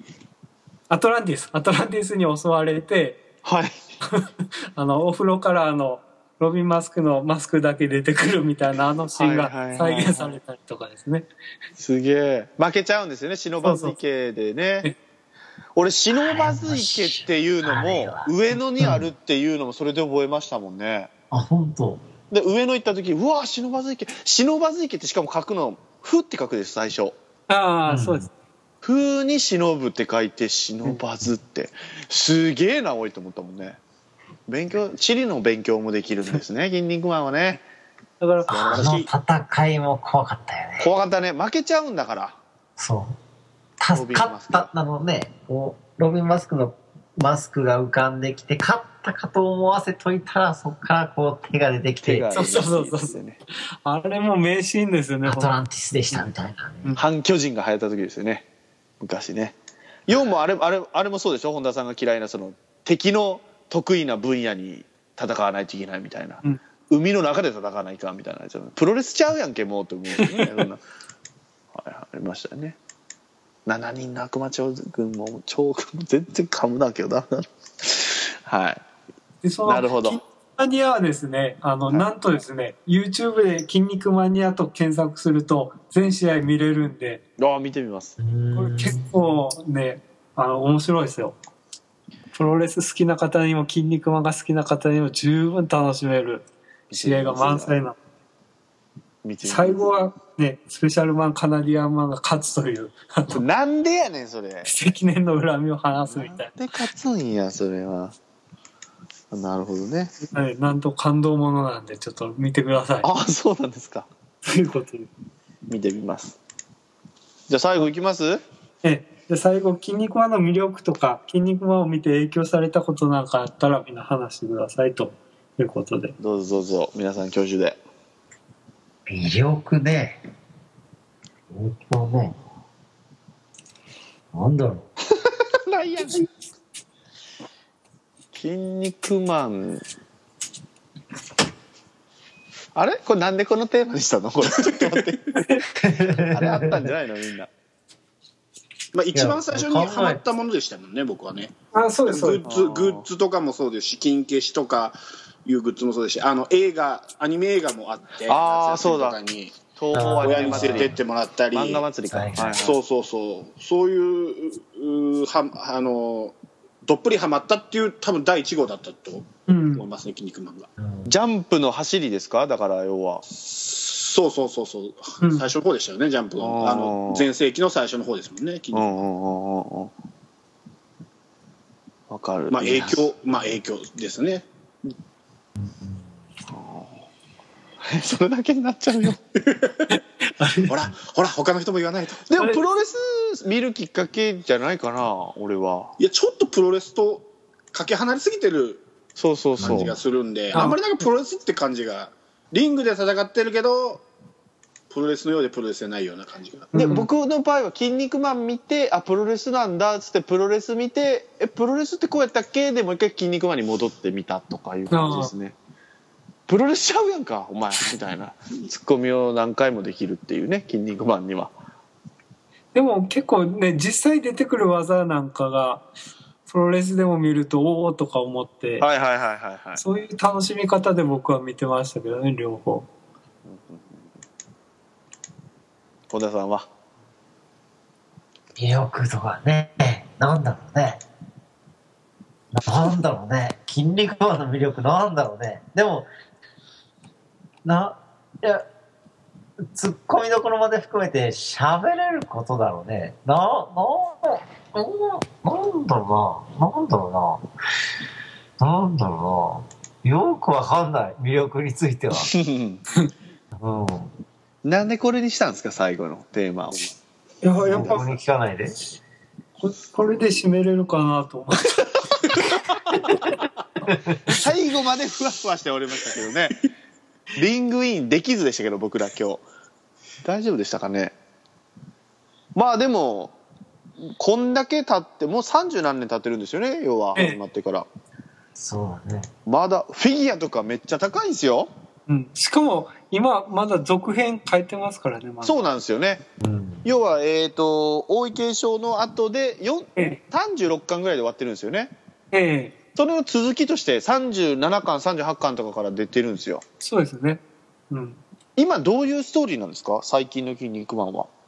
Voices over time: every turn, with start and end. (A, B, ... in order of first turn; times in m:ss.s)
0:00.9-0:03.2 A
0:03.4-0:03.8 B
0:04.1-0:11.3 A
0:09.2-0:10.4 B
0:11.8-0:14.9 B
0:13.6-0:14.0 A
0:15.8-0:21.1 B
0:16.1-0:19.1 C
0:21.3-0:22.1 C
0:22.3-0:27.2 B
0:27.5-0:28.3 A
0:27.9-0:28.3 C
0:28.8-0:33.8 B
0:34.5-0:37.6 B
0:38.2-0:38.7 A
0:38.5-0:40.9 C
0:38.5-0:39.1 D
0:40.8-0:42.4 B
0:42.8-0:43.2 C
0:43.8-0:52.4 C
0:43.9-0:44.7 B
0:52.0-0:53.4 B
0:52.3-0:53.2 A
0:53.8-0:55.6 A
0:55.2-0:57.0 C
0:57.0-0:58.4 B
0:59.0-0:59.6 B
1:00.1-1:10.8 B
1:10.2-1:10.6 A
1:11.7-1:12.8 B
1:13.7-1:18.8 B
1:19.4-1:27.2 A
1:19.6-1:20.2 B
1:27.4-1:28.2 B
1:28.2-1:29.1 C
1:28.6-1:31.4 A
1:32.3-1:38.0 A
1:36.9-1:37.8 B
1:39.2-1:39.9 B
1:39.4-1:43.4 A
1:43.3-1:44.7 B
1:44.6-1:46.5 A
1:46.1-1:48.2 B
1:49.3-1:50.2 B
1:50.2-1:53.1 A
1:53.0-1:54.1 B
1:54.4-1:55.1 A
1:55.7-1:56.4 B
1:57.5-1:58.4 B
1:58.8-2:06.2 A
2:06.2-2:07.8 B
2:09.1-2:10.2 C
2:11.5-2:12.4 C
2:14.3-2:14.9 C
2:15.7-2:16.3 B
2:18.3-2:19.8 B
2:22.8-2:25.4 B
2:25.8-2:26.9 C
2:26.2-2:27.5 B
2:28.9-2:31.6 D
2:29.1-2:30.2 C
2:31.7-2:32.4 A
2:32.1-2:39.6 D
2:32.4-2:33.1 B
2:38.3-2:39.2 B
2:39.8-2:41.0 B
2:39.9-2:41.0 C
2:40.2-2:41.9 D
2:41.5-2:42.8 B
2:42.1-2:42.6 C
2:42.6-2:50.7 D
2:49.5-2:49.9 A
2:50.8-2:51.1 C
2:51.1-2:53.2 B
2:53.3-2:59.1 D
2:55.2-2:55.5 A
2:56.4-2:57.3 B
2:58.7-2:59.9 B
3:02.1-3:03.1 B
3:02.5-3:04.5 D
3:05.6-3:06.0 C
3:06.5-3:07.1 B
3:07.8-3:09.2 B
3:09.4-3:09.9 D
3:09.9-3:10.8 A
3:10.6-3:12.3 D
3:12.3-3:15.9 B
3:16.0-3:18.8 D
3:19.2-3:20.0 B
3:19.6-3:24.0 D
3:19.6-3:19.9 C
3:20.5-3:20.8 A
3:24.9-3:26.7 D
3:26.7-3:27.1 A
3:26.7-3:35.6 B
3:34.9-3:35.3 A
3:36.5-3:41.5 B
3:42.7-3:45.8 A
3:46.5-3:48.8 A
3:48.8-3:49.8 B
3:49.8-3:52.9 A
3:53.4-3:54.1 B
3:56.1-3:56.7 B
3:58.6-4:01.0 C
4:02.5-4:06.1 C
4:07.6-4:08.7 C
4:09.6-4:17.5 C
4:18.6-4:22.3 C
4:22.2-4:22.8 B
4:23.5-4:24.1 C
4:24.6-4:26.9 B
4:27.4-4:28.2 A
4:27.6-4:28.0 B
4:27.6-4:28.8 C
4:29.6-4:31.9 A
4:33.9-4:34.4 C
4:34.3-4:36.6 B
4:37.4-4:39.4 B
4:40.2-4:41.2 B
4:42.6-4:43.4 B
4:44.0-4:47.9 B
4:47.2-4:47.4 A
4:48.6-4:49.3 C
4:49.5-4:51.7 B
4:52.1-4:55.6 A
4:55.4-4:56.2 B
4:56.4-4:56.9 C
4:56.8-5:01.9 B
5:02.3-5:02.8 A
5:03.0-5:06.6 B
5:06.8-5:08.2 A
5:08.6-5:11.3 B